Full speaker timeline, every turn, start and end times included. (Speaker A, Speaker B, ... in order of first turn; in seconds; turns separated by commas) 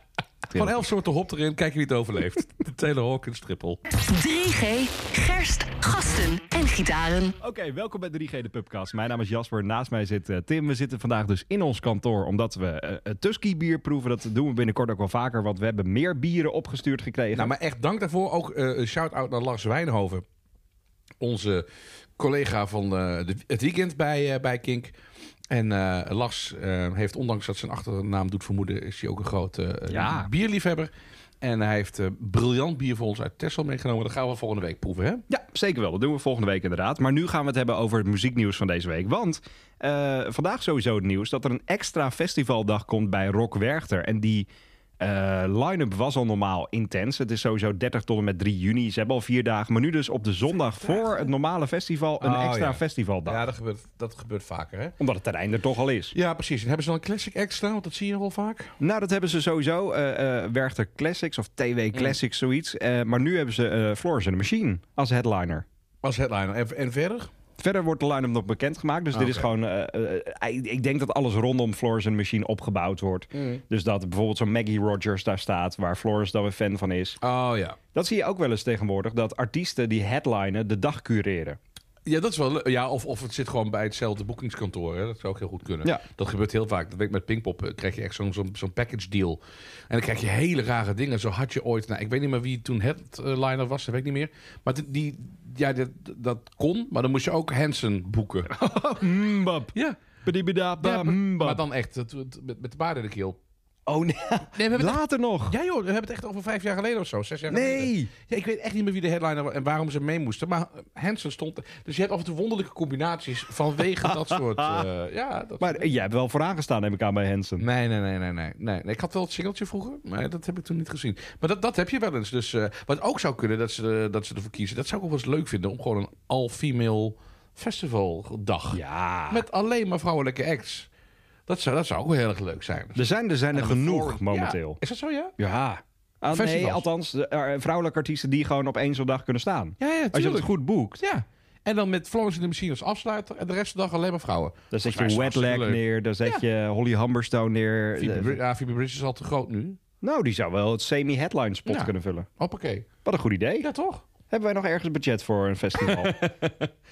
Speaker A: 0.5-3.8, Speaker B: 3.9-7.3, Speaker C: 7.4-17.5, Speaker A: 17.3-20.2, Speaker A: 21.2-21.6, Speaker A: 22.2-24.9, Speaker A: 25.5-35.2, Speaker C: 29.9-30.3, Speaker C: 35.3-44.5, Speaker C: 45.0-53.4, Speaker A: 52.2-55.0, Speaker C: 55.0-56.1, Speaker A: 56.1-58.8, Speaker C: 58.8-65.6, Speaker A: 66.0-67.3, Speaker C: 67.6-77.2, Speaker A: 69.1-69.5, Speaker A: 73.3-73.6, Speaker A: 77.2-77.8, Speaker C: 77.9-81.6, Speaker A: 82.0-98.5, Speaker C: 98.5-99.7, Speaker A: 99.7-100.0, Speaker C: 100.2-101.6, Speaker A: 100.8-103.4, Speaker C: 103.9-105.6, Speaker A: 104.5-115.9, Speaker C: 107.5-108.1, Speaker C: 114.0-114.8, Speaker C: 115.6-117.7, Speaker A: 117.6-130.9, Speaker C: 128.7-129.4, Speaker A: 131.5-135.3, Speaker C: 132.9-134.8, Speaker C: 135.4-141.0, Speaker A: 136.3-136.8, Speaker A: 139.8-146.4, Speaker C: 144.7-148.4, Speaker A: 148.0-149.8, Speaker C: 150.0-152.3, Speaker A: 151.7-152.9, Speaker C: 153.0-153.7, Speaker A: 153.6-154.0, Speaker C: 154.3-156.2, Speaker A: 155.8-156.7